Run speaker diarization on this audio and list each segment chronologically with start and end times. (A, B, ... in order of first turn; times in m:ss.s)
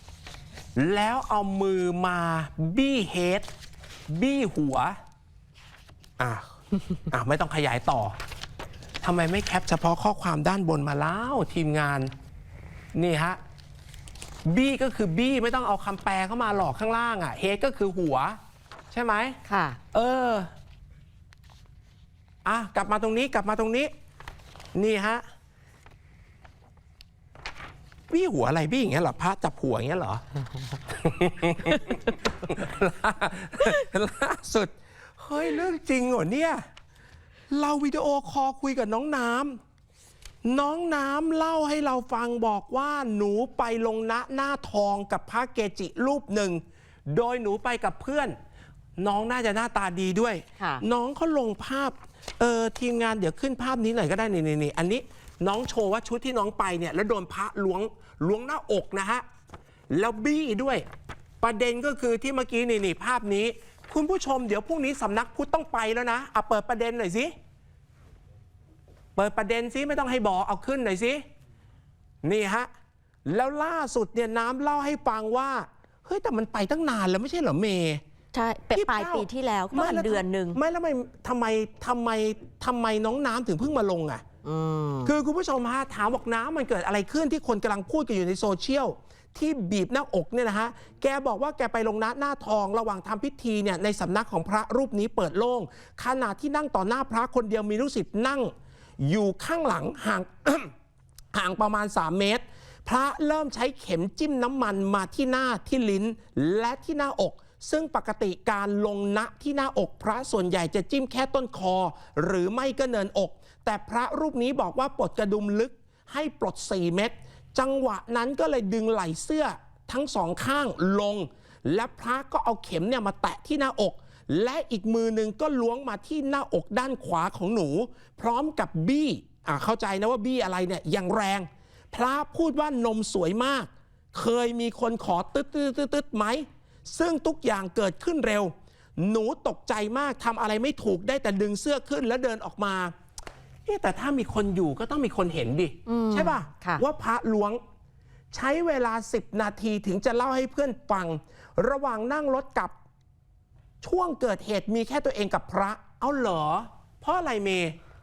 0:00.8-0:03.5 A
0:04.1-0:05.0 A
0:06.2-0:06.5 A
0:07.1-0:08.1 A
0:09.0-0:12.1 A
0:13.0-0:13.4 A
0:14.5-0:18.4 A
0:18.9-0:19.4 A
0:19.5-0:19.8 B
0:19.9-0:20.5 A
0:22.4-0:23.9 A
0:24.8-0:25.2 A
0:28.1-0:30.2 A
0:30.9-0:36.6 A
0:37.5-0:39.6 A
0:40.4-0:48.4 A
0:49.0-0:59.2 A
0:59.9-1:00.8 A
1:01.4-1:07.3 A
1:09.2-1:11.2 A
1:12.2-1:12.7 A
1:13.2-1:18.0 A
1:18.3-1:20.6 B
1:18.7-1:24.2 A
1:24.4-1:25.1 B
1:25.0-1:40.7 A
1:41.3-2:22.9 A
2:23.7-2:27.6 A
2:25.9-2:26.8 B
2:28.3-2:32.7 A
2:33.8-2:37.8 A